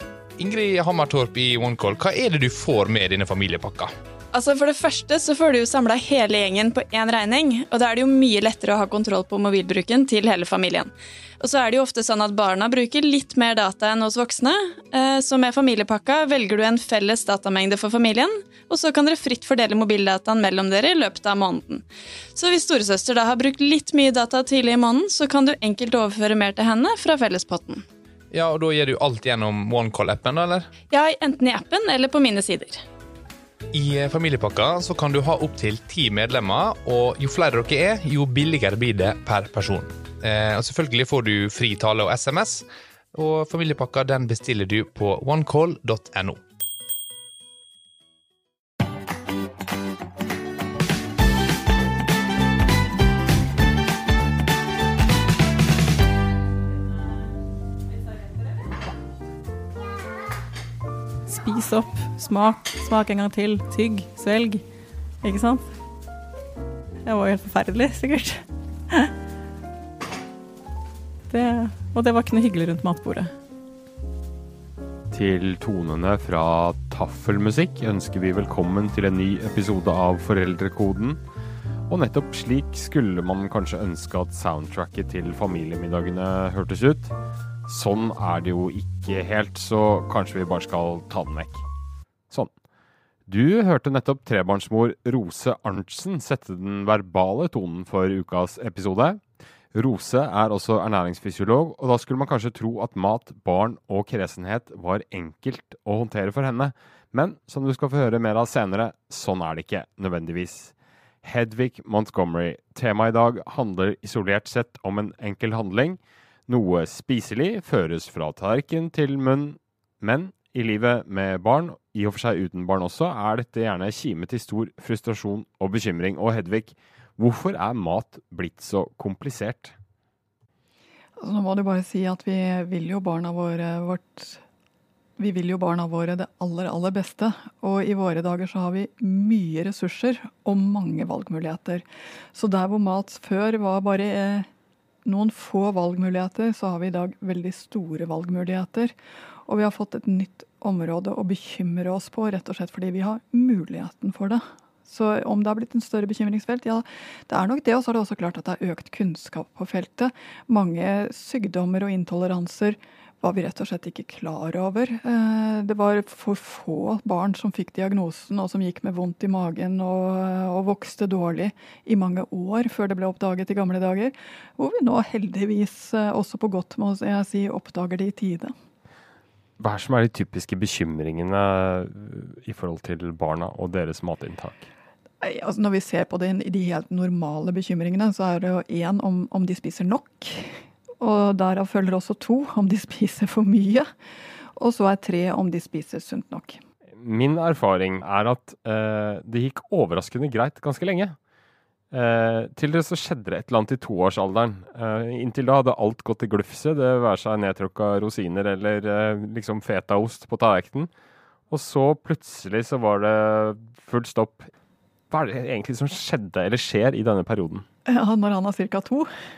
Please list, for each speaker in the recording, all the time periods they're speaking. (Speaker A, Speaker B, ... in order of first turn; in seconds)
Speaker A: 0.4-3.9, 28.3-30.7, 33.7-46.4
Speaker B: 4.3-21.8, 22.3-27.8, 30.9-32.8
Speaker C: 61.3-64.6, 65.2-65.7, 67.0-69.1, 71.3-73.3
Speaker D: 75.1-81.2, 81.9-87.1, 87.7-91.6, 93.3-99.2, 99.7-129.7, 179.6-184.7, 196.9-201.2, 201.9-210.9, 211.5-214.5, 215.1-217.6
Speaker E: 131.2-134.4, 135.2-144.5, 145.0-148.9, 149.5-178.5, 185.2-193.9, 194.6-196.6, 217.8-219.1